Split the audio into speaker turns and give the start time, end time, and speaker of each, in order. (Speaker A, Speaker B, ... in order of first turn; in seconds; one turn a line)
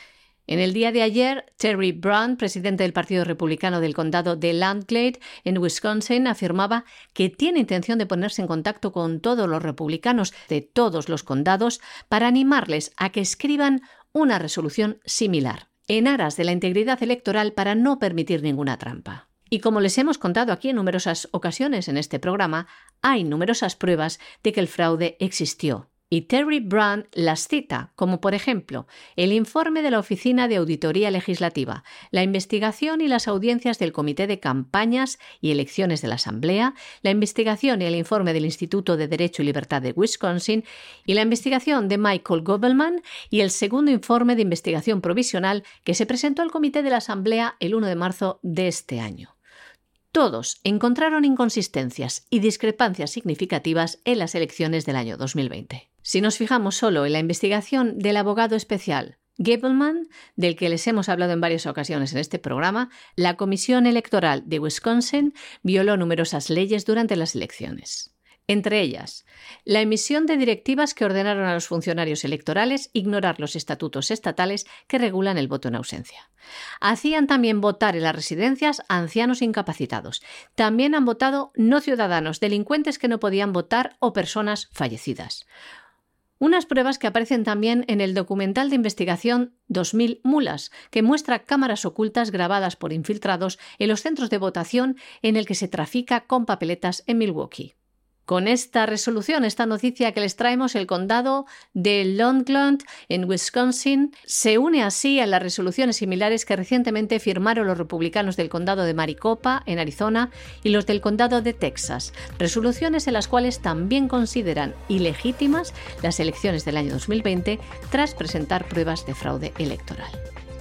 Speaker A: 0.5-49.3
Speaker A: 50.1-76.3
Speaker A: 76.8-85.5
Speaker A: 86.4-97.7
Speaker A: 98.3-120.2